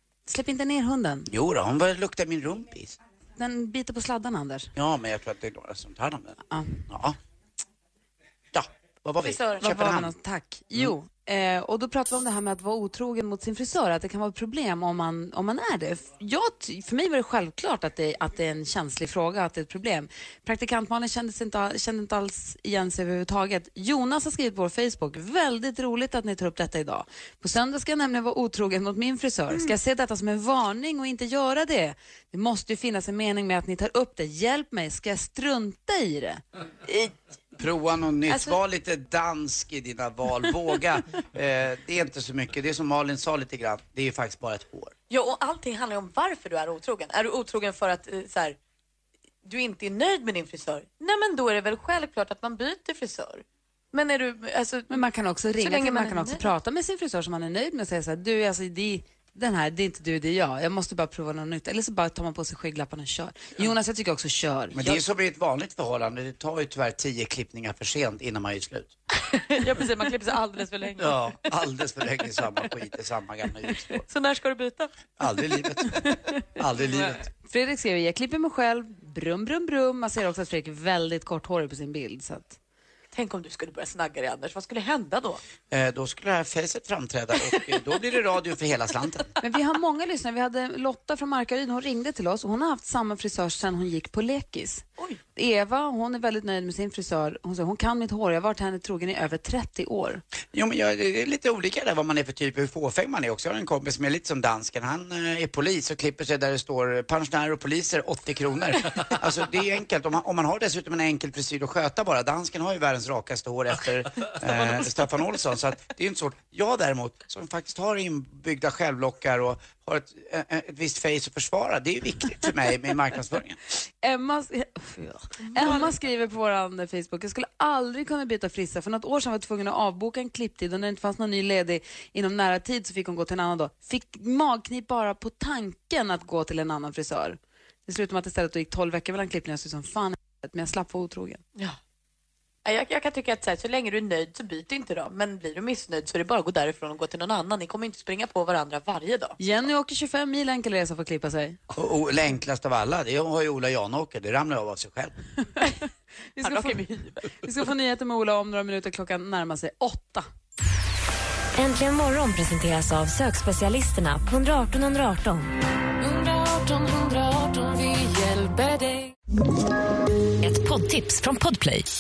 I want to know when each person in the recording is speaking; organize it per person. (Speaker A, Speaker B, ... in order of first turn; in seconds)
Speaker A: 0.3-1.3, 3.4-4.7, 6.5-6.8, 9.6-36.4, 54.9-65.0, 77.5-82.6, 89.4-94.8, 95.3-100.2, 124.0-141.4, 149.4-151.6, 156.3-156.8, 157.4-160.3
Speaker B: 1.3-3.0, 4.8-6.4, 6.9-7.2, 8.5-10.1, 37.6-44.9, 64.7-68.9, 71.0-74.0, 75.2-76.0, 76.6-77.2, 85.7-89.3, 100.5-123.6, 151.7-155.1
Speaker C: 9.2-9.8, 38.3-38.6, 45.1-48.6, 49.5-54.9, 55.6-56.5, 69.3-71.3, 73.9-74.9, 83.1-85.4, 125.5-125.9, 142.7-149.4, 156.4-157.3
Speaker D: 161.6-165.5, 170.4-171.9
Speaker E: 166.0-169.2